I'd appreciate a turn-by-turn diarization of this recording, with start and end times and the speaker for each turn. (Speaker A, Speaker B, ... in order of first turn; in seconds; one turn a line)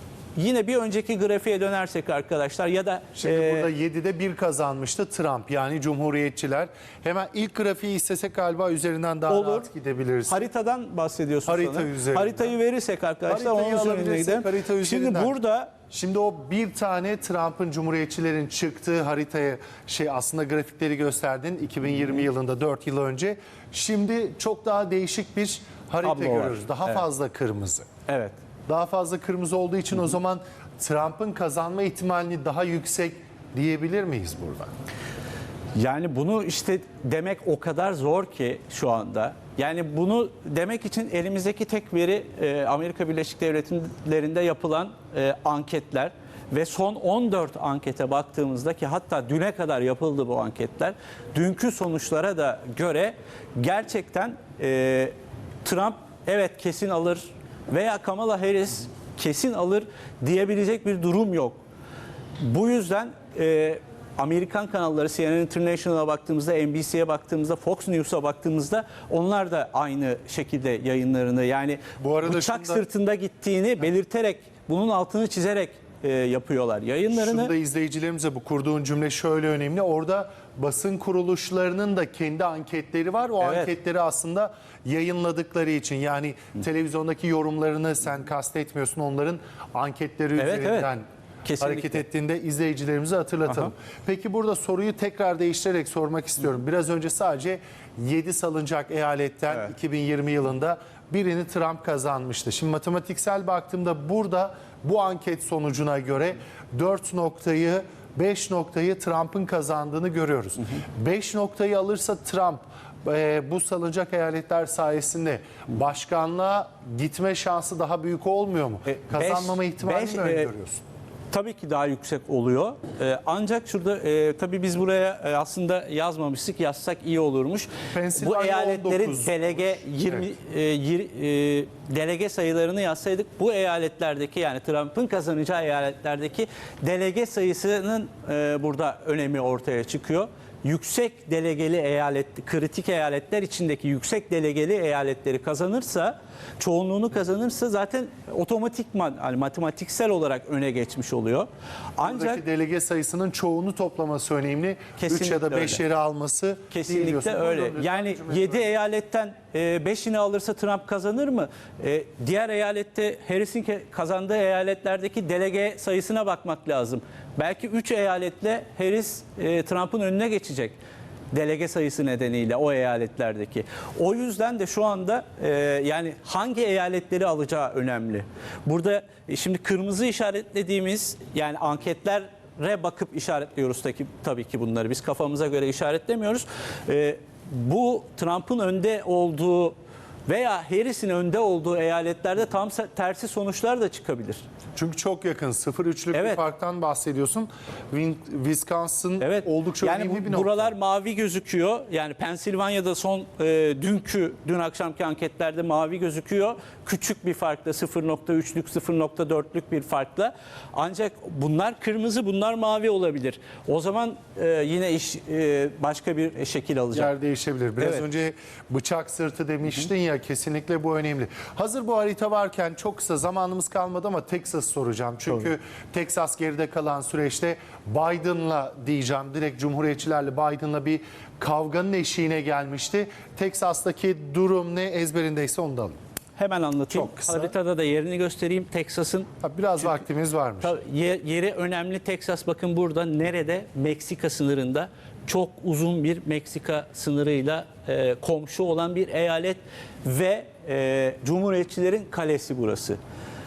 Speaker A: 0.4-3.7
Speaker B: 3.2-10.5
Speaker A: 9.3-9.7
Speaker A: 10.3-15.7
Speaker B: 11.5-12.5
Speaker B: 13.3-15.3
Speaker B: 15.9-27.9
Speaker A: 26.0-27.0
Speaker A: 28.1-28.4
Speaker B: 28.7-34.7
Speaker A: 35.8-55.1
Speaker A: 55.6-61.6
Speaker A: 62.4-77.5
Speaker B: 72.0-72.8
Speaker B: 77.1-91.0
Speaker A: 83.4-83.7
Speaker A: 90.4-90.9
Speaker A: 91.5-92.0
Speaker B: 91.6-120.8
Speaker A: 118.9-120.5
Speaker A: 121.3-152.4
Speaker B: 127.9-129.8
Speaker B: 152.0-158.7
Speaker A: 155.0-155.8
Speaker A: 156.7-170.8
Speaker A: 171.3-189.8
Speaker A: 190.3-194.4
Speaker B: 194.8-200.7
Speaker A: 196.1-196.4
Speaker A: 199.2-217.1
Speaker B: 216.9-236.0
Speaker A: 217.8-218.1
Speaker A: 236.4-240.0
Speaker B: 236.9-237.5
Speaker B: 239.4-240.7
Speaker A: 240.6-253.0